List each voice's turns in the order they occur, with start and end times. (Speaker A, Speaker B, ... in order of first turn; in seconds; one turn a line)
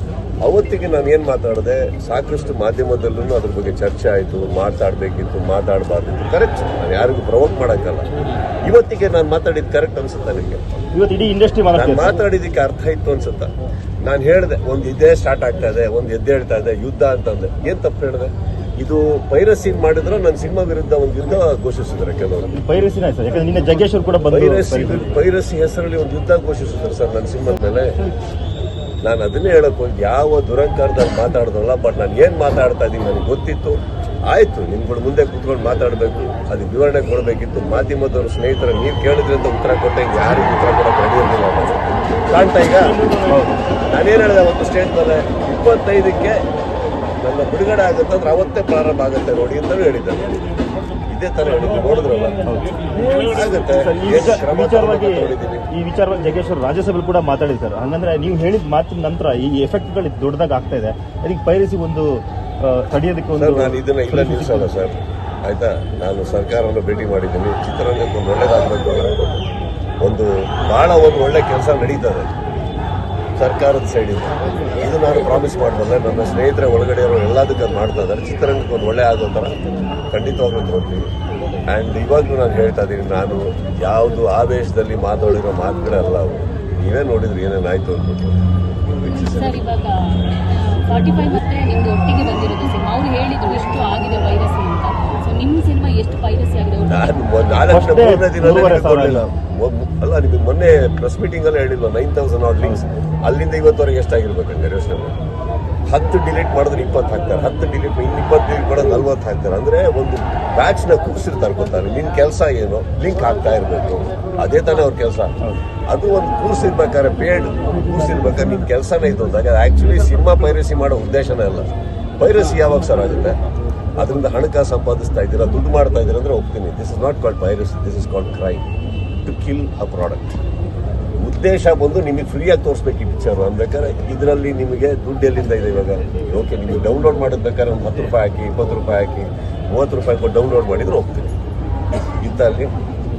Speaker A: 0.4-10.6
Speaker B: 10.9-12.2
Speaker A: 11.7-22.5
Speaker B: 22.5-25.1
Speaker A: 24.3-28.0
Speaker A: 29.0-43.0
Speaker B: 43.3-43.6
Speaker A: 43.9-46.4
Speaker A: 47.2-50.4
Speaker A: 51.1-52.4
Speaker B: 52.5-52.8
Speaker A: 53.0-55.7
Speaker B: 53.7-64.7
Speaker A: 63.4-69.3
Speaker A: 70.0-72.3
Speaker A: 73.4-79.6
Speaker A: 80.1-81.1
Speaker A: 81.7-89.6
Speaker C: 89.1-97.1
Speaker A: 96.9-105.2
Speaker B: 97.7-99.2
Speaker A: 105.9-115.3
Speaker A: 115.9-123.4
Speaker A: 124.0-128.7
Speaker A: 129.2-130.4
Speaker A: 131.2-141.3
Speaker A: 142.2-142.8